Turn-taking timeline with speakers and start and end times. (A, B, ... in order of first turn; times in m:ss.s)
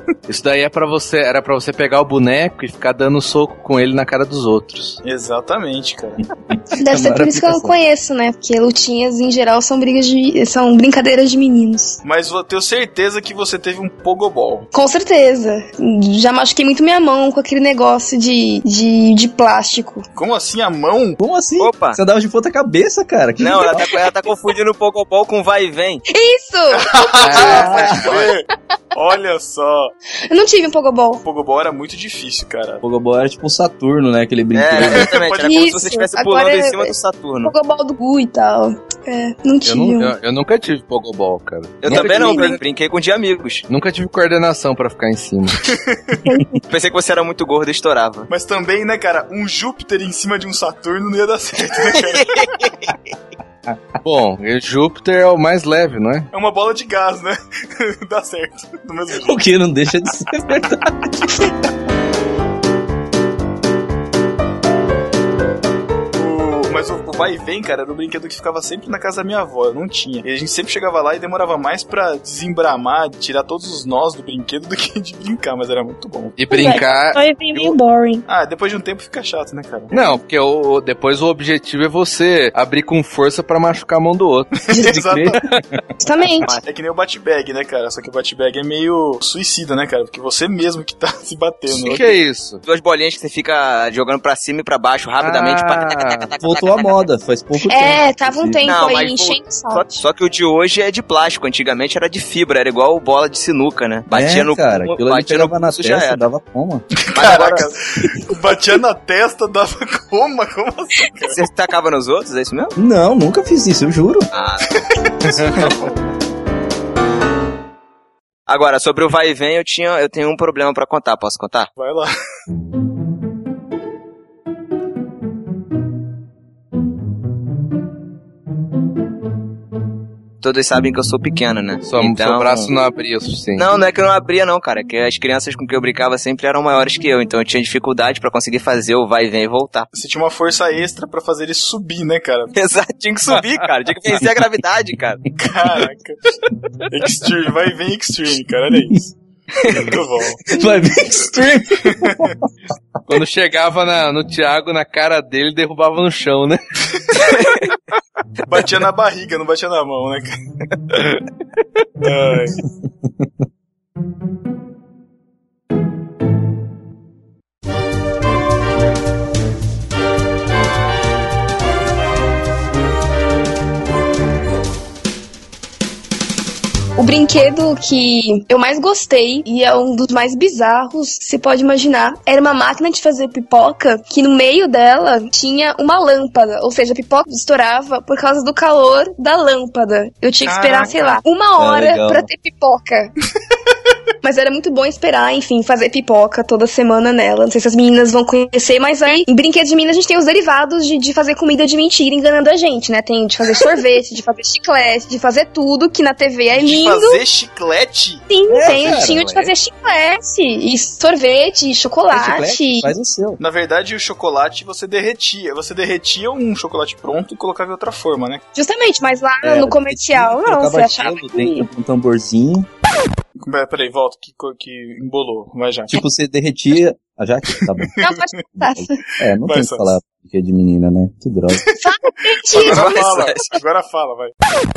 0:00.3-0:05.0 A
0:05.0-0:06.2 B
0:06.5-0:07.7 C
0:06.8-0:12.0 D
0:12.0-0:14.7 B
0:14.7-0:20.0 D
0:20.1-0:21.2 B
0:21.2-0:23.9 C
0:21.6-0:22.0 E
0:23.4-0:26.0 E
0:26.1-0:27.9 D
0:26.8-0:29.9 B
0:27.2-0:27.6 A
0:27.4-0:28.1 C
0:27.6-0:28.3 E
0:30.3-0:31.2 D
0:31.2-0:32.8 B
0:32.8-0:35.1 C
0:34.5-0:37.5 E
0:34.8-0:35.5 B
0:35.4-0:40.1 D
0:39.6-0:42.6 A
0:41.8-0:43.6 E
0:41.9-0:42.6 D
0:43.7-0:45.6 A
0:45.7-0:46.1 B
0:46.2-0:46.6 D
0:46.7-0:48.3 E
0:48.3-0:52.5 B
0:52.1-0:52.7 E
0:54.0-0:56.3 A
0:56.3-0:59.4 B
0:59.2-1:01.3 C
1:06.1-1:16.4 B
1:16.4-1:17.8 A
1:16.5-1:18.2 D
1:18.3-1:19.9 B
1:19.9-1:24.5 A
1:24.7-1:25.1 D
1:24.7-1:25.4 B
1:24.8-1:25.8 C
1:26.0-1:26.6 D
1:26.5-1:32.2 B
1:31.8-1:32.6 A
1:32.6-1:37.0 E
1:35.2-1:36.3 A
1:36.4-1:38.6 C
1:37.6-1:40.0 D
1:38.6-1:46.2 E
1:44.1-1:47.6 C
1:47.1-1:51.4 B
1:47.1-1:47.6 E
1:51.3-1:52.7 E
1:52.8-1:54.3 C
1:54.3-1:54.6 E
1:55.3-1:55.9 B
1:55.3-1:55.6 A
1:58.5-2:01.7 E
2:01.8-2:02.1 B
2:10.4-2:12.7 E
2:11.8-2:13.7 A
2:13.6-2:19.9 E
2:19.9-2:22.5 B
2:22.5-2:25.2 E
2:25.4-2:26.2 B
2:26.9-2:29.1 B
2:29.7-2:30.4 B
2:30.5-2:32.4 C
2:31.8-2:32.3 B
2:33.1-2:36.6 A
2:38.5-2:40.3 B
2:42.0-2:42.6 B
2:57.0-3:13.1 D
3:10.4-3:11.2 B
3:11.6-3:12.3 C
3:14.2-3:27.2 D
3:26.5-3:28.2 B
3:28.3-3:32.9 D
3:28.5-3:29.5 C
3:28.7-3:29.1 A
3:32.1-3:33.4 C
3:33.4-3:38.4 B
3:38.5-3:41.7 D
3:39.4-3:42.7 C
3:43.4-3:45.9 B
3:45.9-3:47.9 C
3:48.0-3:49.0 D
3:48.6-3:51.6 C
3:49.4-3:49.9 B
3:51.8-3:53.3 D
3:52.5-3:54.3 B
3:52.6-3:53.4 E